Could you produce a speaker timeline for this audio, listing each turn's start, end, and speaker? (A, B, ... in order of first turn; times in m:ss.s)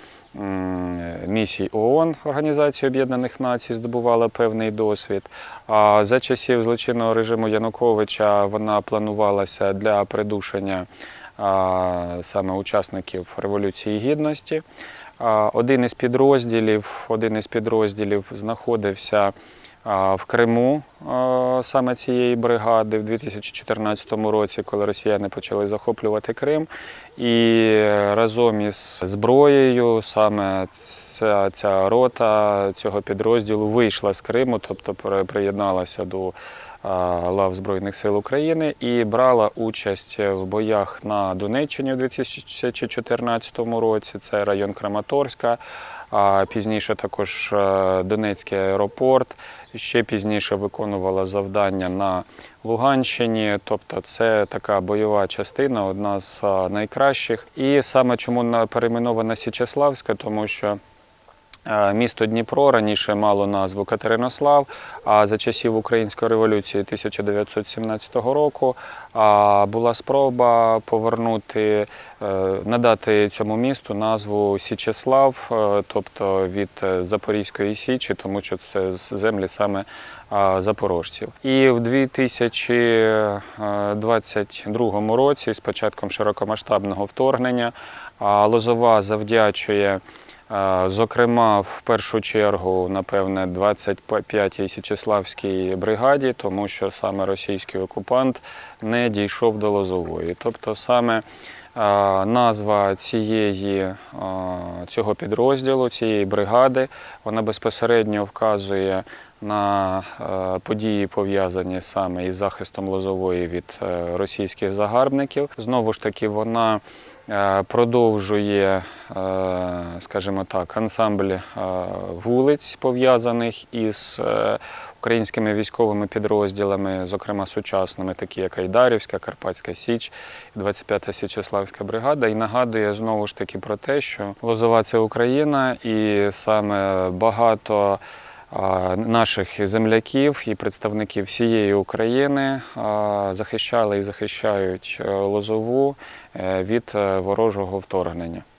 0:00.3-0:14.6 A
0:15.2-0:19.3 A
0:19.8-0:45.6 A
0:46.1-1:00.8 A
1:01.7-1:41.2 A
1:41.8-2:28.4 A